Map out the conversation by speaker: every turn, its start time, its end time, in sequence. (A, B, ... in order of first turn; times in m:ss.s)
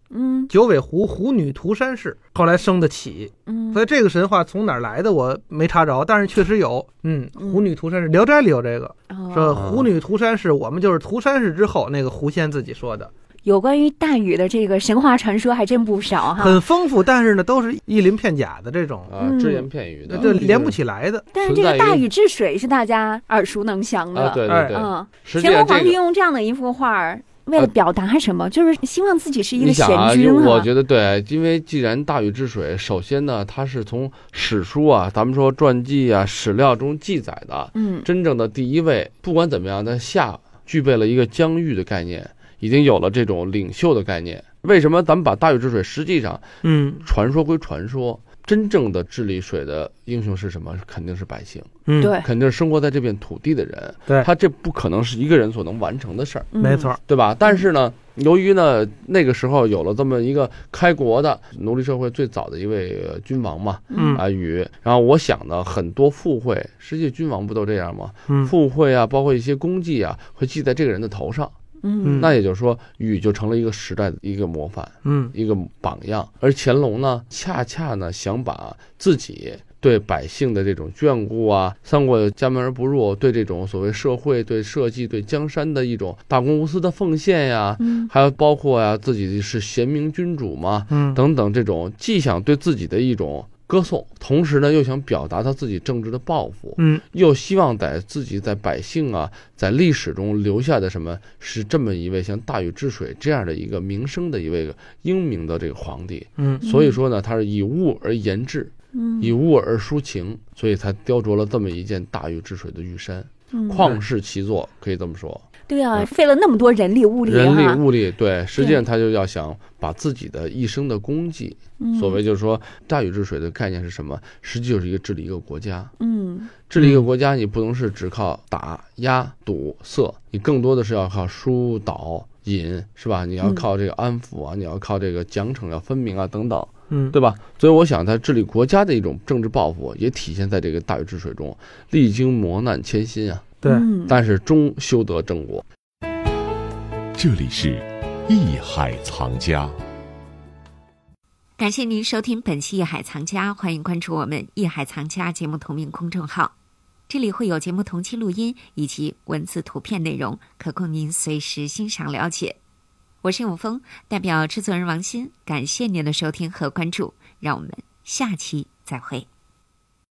0:00.1-0:00.5 A
0:00.5-0:13.1 B
0:03.5-0:03.8 A
0:07.4-0:07.7 A
0:09.1-0:09.6 A
0:09.5-0:09.9 C
0:13.4-0:16.6 A
0:16.3-0:19.1 B
0:19.1-0:20.8 C
0:19.2-0:20.4 A
0:20.1-0:21.3 B
0:21.3-0:30.7 A
0:21.4-0:22.1 C
0:24.1-0:26.0 C
0:24.5-0:24.8 B
0:29.6-0:46.4 C
0:37.7-0:38.1 A
0:46.6-0:47.0 B
0:47.0-1:11.5 C
0:51.9-0:52.1 B
0:52.0-0:52.3 A
0:56.5-0:56.9 A
0:56.6-0:57.0 B
1:03.9-1:04.2 A
1:04.0-1:04.2 B
1:11.8-1:12.2 A
1:12.0-1:12.3 B
1:12.1-1:56.1 C
1:15.0-1:15.3 B
1:27.8-1:28.1 A
1:30.9-1:31.2 B
1:36.8-1:37.0 B
1:46.4-1:46.6 B
1:46.6-1:47.0 A
1:48.9-1:49.3 A
1:53.5-1:53.9 A
1:55.7-1:57.8 A
1:57.2-2:05.9 C
1:58.5-1:58.8 A
2:01.8-2:02.2 A
2:06.0-2:06.5 A
2:06.6-2:25.6 C
2:06.8-2:07.0 B
2:16.9-2:17.2 B
2:23.7-2:24.2 A
2:27.2-2:29.8 D
2:31.6-2:36.5 E
2:37.1-2:42.6 E
2:43.2-2:49.3 E